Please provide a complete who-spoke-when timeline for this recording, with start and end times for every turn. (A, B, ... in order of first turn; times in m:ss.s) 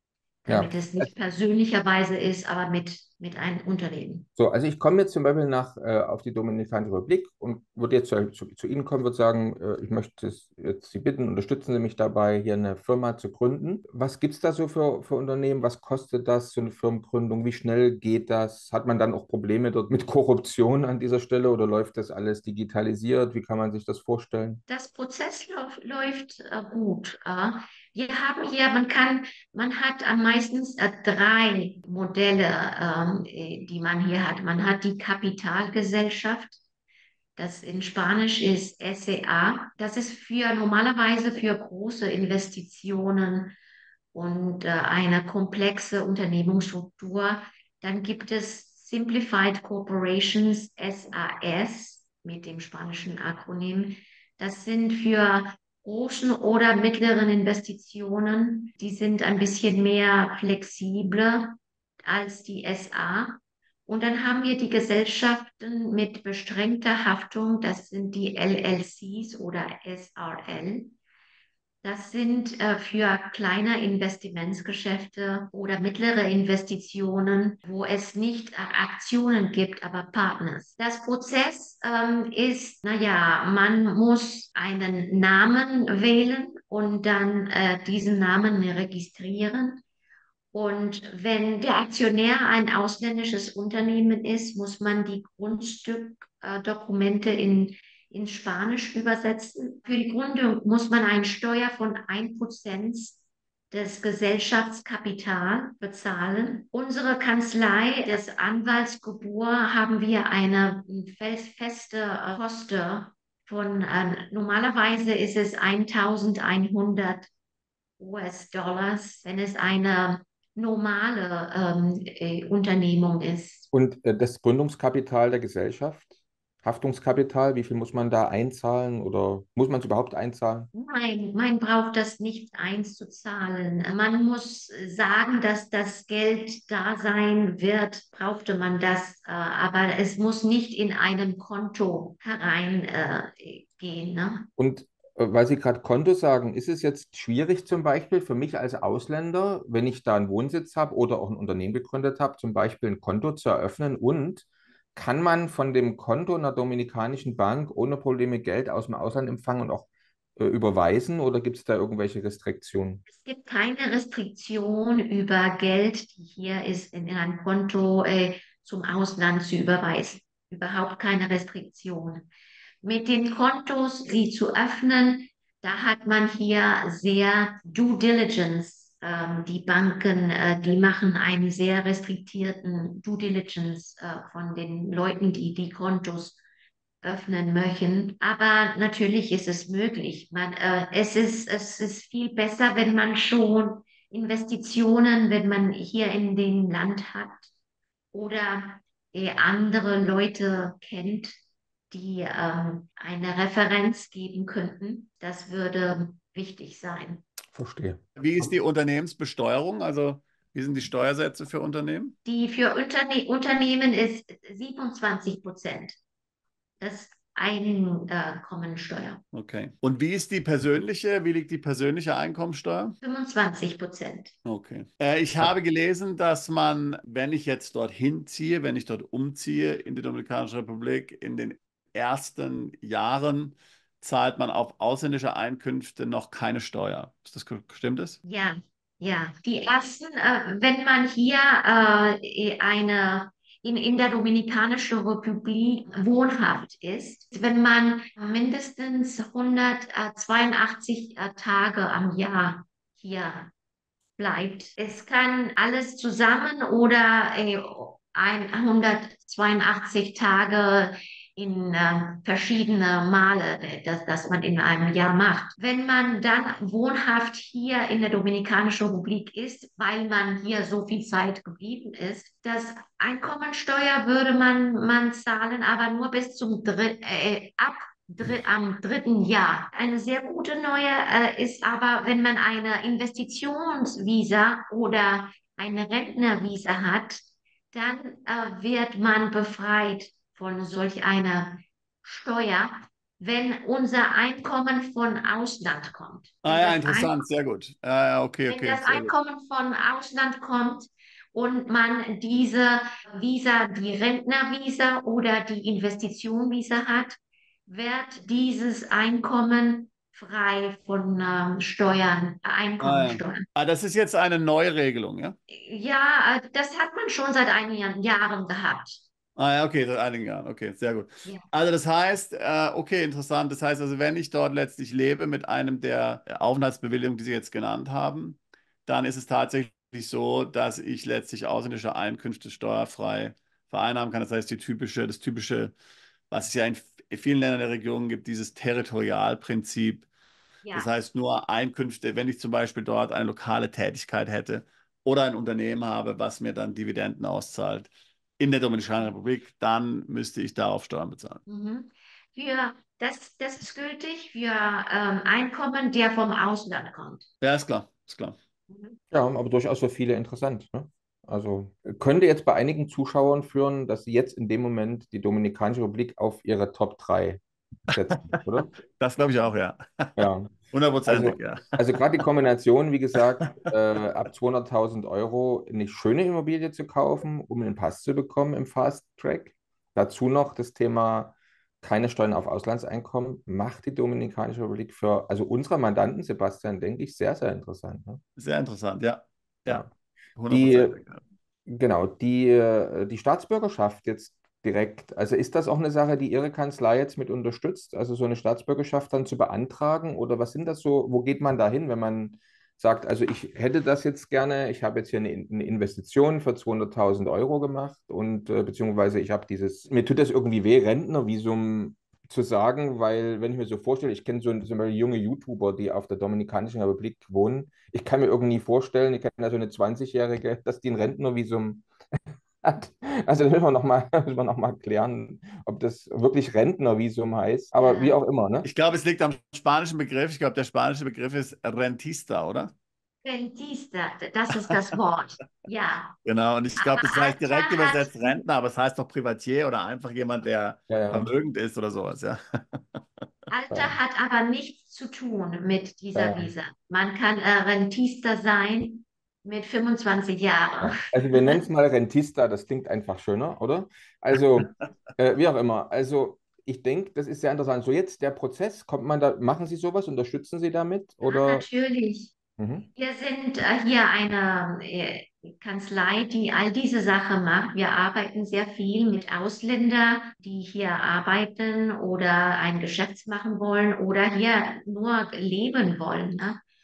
0:00.4-0:04.2 A
0:00.5-0:01.1 B
0:04.4-0:24.6 B
0:24.7-0:36.6 A
0:37.4-0:43.5 A
0:44.1-1:10.9 A
1:11.8-1:29.8 A
1:30.5-1:43.2 A
1:43.7-1:57.3 A
1:58.0-2:03.7 A
2:03.7-2:06.1 B
2:06.6-2:10.7 B
2:10.7-2:24.4 A
2:24.6-2:43.0 B
2:43.1-2:52.3 A
2:52.8-3:06.4 A
3:07.0-3:17.5 A
3:18.1-3:21.4 A
3:21.9-3:27.2 A
3:27.5-3:28.5 B
3:28.2-3:32.1 C
3:32.2-3:36.0 A
3:36.8-3:39.2 A
3:39.3-3:43.0 C
3:43.0-3:44.3 A
3:44.4-3:58.2 C
3:58.2-4:13.5 A
4:14.2-4:57.2 A
4:56.4-4:59.1 C
4:58.5-5:13.4 A
5:12.8-5:15.4 C
5:15.5-5:19.0 A
5:19.4-5:35.7 C
5:36.3-5:40.1 C
5:40.7-5:51.4 C
5:51.5-5:57.3 A
5:57.4-5:58.4 C
5:58.7-5:59.0 A
5:59.1-6:08.7 B
6:08.0-6:08.4 C
6:09.0-6:11.8 C
6:10.2-6:28.2 B
6:28.4-6:31.2 C
6:30.5-6:31.0 B
6:31.7-7:01.9 B
7:02.6-7:08.7 B
7:07.8-7:08.2 A
7:08.6-7:12.7 C
7:13.2-7:16.1 A
7:16.2-7:23.0 C
7:16.8-7:18.4 A
7:20.9-7:21.3 B
7:23.5-7:31.6 A
7:23.7-7:24.0 B
7:26.1-7:26.5 B
7:30.8-7:41.6 B
7:41.2-7:42.3 A
7:42.6-7:42.9 B
7:42.9-7:56.6 A